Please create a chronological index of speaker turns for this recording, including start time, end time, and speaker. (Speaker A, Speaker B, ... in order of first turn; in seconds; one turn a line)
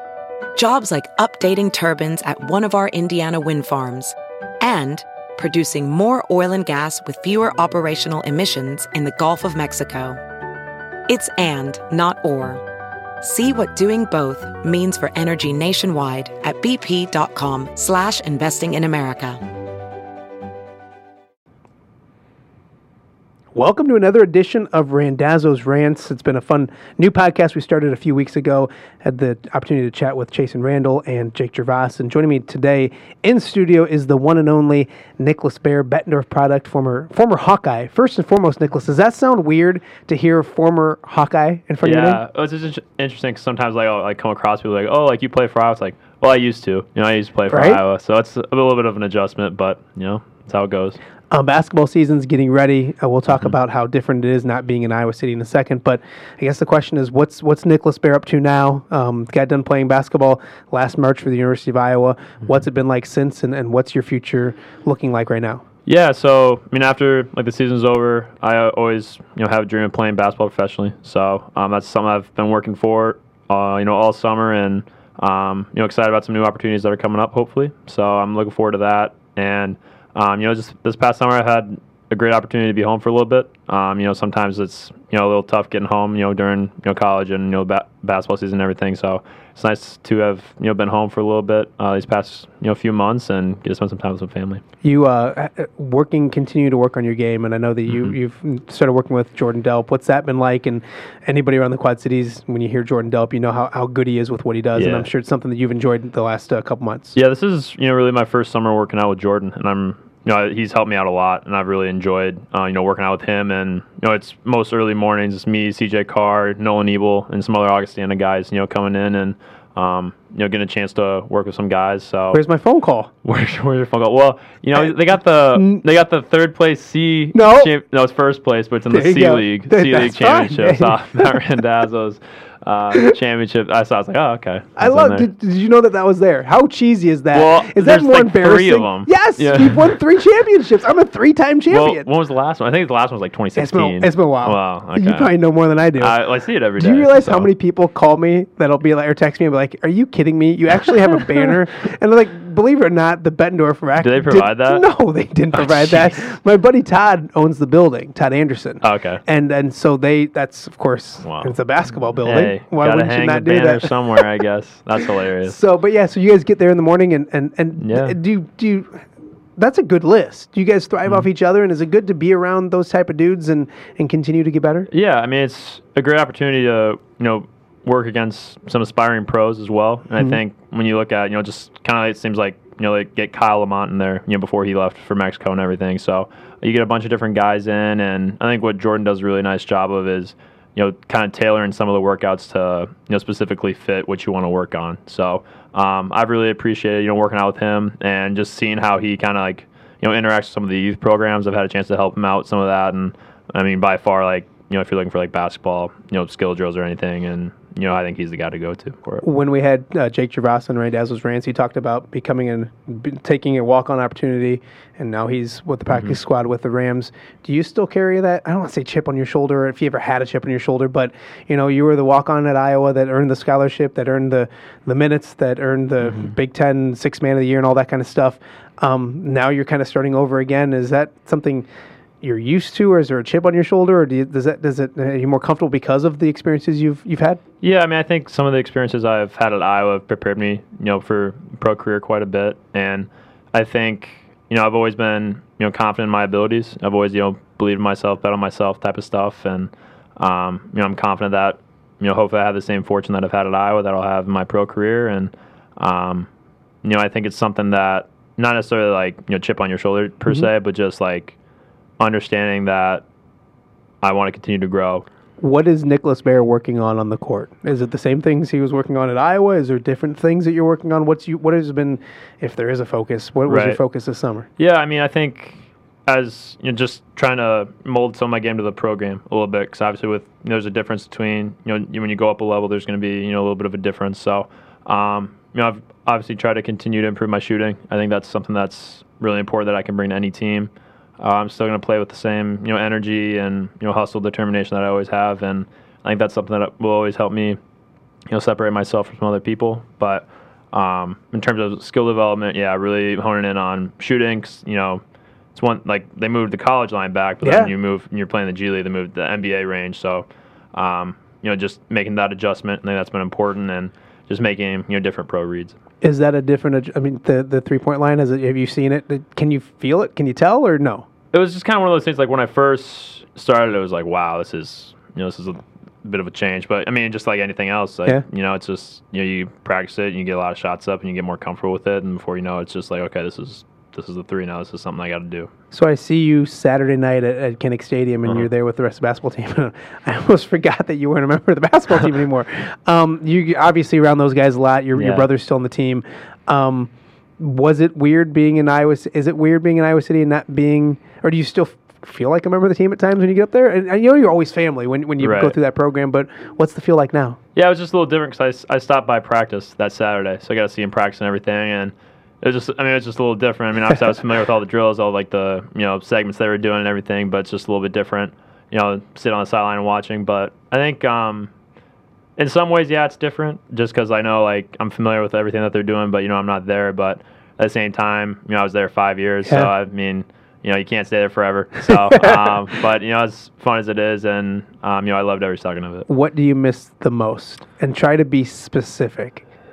Speaker A: 0.5-10.2
Speaker A: 11.1-12.6
Speaker A: 13.2-19.4
Speaker B: 23.5-42.2
Speaker C: 41.8-51.0
Speaker B: 47.5-47.8
Speaker B: 51.3-65.6
Speaker C: 65.8-94.6
Speaker B: 94.8-107.2
Speaker C: 97.9-98.1
Speaker C: 104.8-105.1
Speaker C: 107.1-122.4
Speaker B: 122.3-123.1
Speaker C: 123.2-135.3
Speaker B: 125.5-125.8
Speaker B: 127.3-127.7
Speaker B: 128.9-131.4
Speaker B: 134.8-142.0
Speaker C: 137.3-139.9
Speaker C: 141.7-145.3
Speaker B: 143.6-146.2
Speaker C: 146.0-147.5
Speaker B: 146.8-164.2
Speaker C: 154.0-154.8
Speaker C: 155.5-156.1
Speaker C: 158.8-159.2
Speaker C: 161.2-161.6
Speaker C: 162.2-165.6
Speaker B: 165.4-169.1
Speaker C: 167.8-168.2
Speaker B: 169.6-174.9
Speaker C: 174.9-209.2
Speaker B: 209.2-231.7
Speaker B: 232.2-237.4
Speaker C: 237.6-256.3
Speaker C: 256.8-261.4
Speaker C: 262.0-263.0
Speaker C: 264.0-265.0
Speaker B: 265.4-274.5
Speaker C: 273.4-273.8
Speaker C: 274.6-297.6
Speaker C: 298.3-305.0
Speaker C: 305.5-315.8
Speaker B: 307.4-307.7
Speaker B: 316.0-321.1
Speaker C: 321.3-335.5
Speaker B: 335.7-357.4
Speaker C: 344.9-345.3
Speaker C: 355.2-355.6
Speaker C: 357.5-371.5
Speaker C: 372.4-386.1
Speaker B: 381.9-382.6
Speaker B: 386.1-389.4